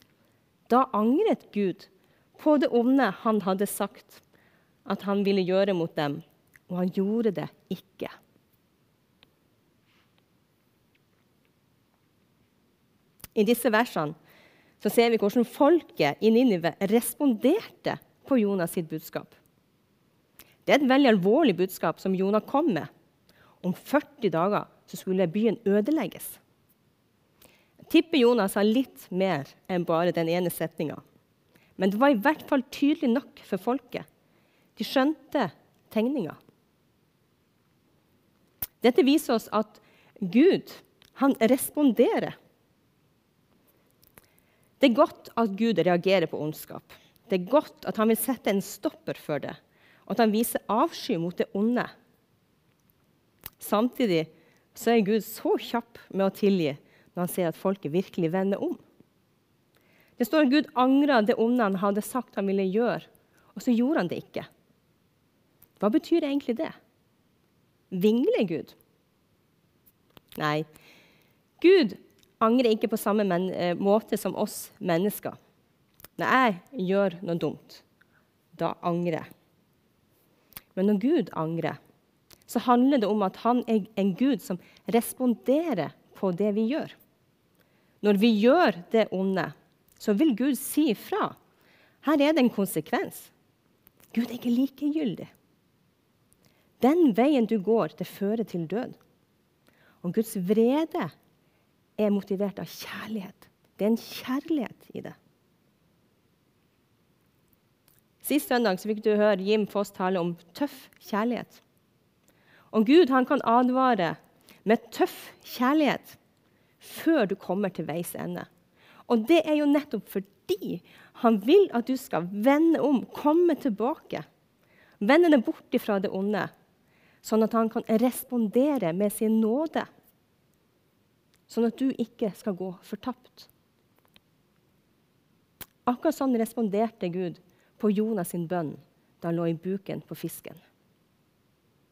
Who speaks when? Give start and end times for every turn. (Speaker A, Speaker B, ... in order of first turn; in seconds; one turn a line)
Speaker A: 0.7-4.2
Speaker A: 4.8-8.1
Speaker A: 13.3-14.2
Speaker A: 14.8-19.3
Speaker A: 20.6-22.9
Speaker A: 23.6-26.4
Speaker A: 27.8-31.0
Speaker A: 31.8-34.0
Speaker A: 34.8-36.4
Speaker A: 38.8-42.3
Speaker A: 44.8-51.9
Speaker A: 53.6-58.8
Speaker A: 60.2-64.5
Speaker A: 65.8-66.7
Speaker A: 67.9-68.7
Speaker A: 70.3-70.7
Speaker A: 71.6-75.4
Speaker A: 76.2-77.8
Speaker A: 78.5-79.3
Speaker A: 80.7-81.8
Speaker A: 82.5-86.9
Speaker A: 88.0-91.3
Speaker A: 92.0-93.3
Speaker A: 94.1-95.3
Speaker A: 96.8-99.0
Speaker A: 100.0-101.1
Speaker A: 102.0-105.2
Speaker A: 108.2-111.6
Speaker A: 112.7-116.2
Speaker A: 116.8-118.5
Speaker A: 119.1-124.2
Speaker A: 125.0-126.5
Speaker A: 127.2-129.9
Speaker A: 131.5-133.5
Speaker A: 135.8-140.6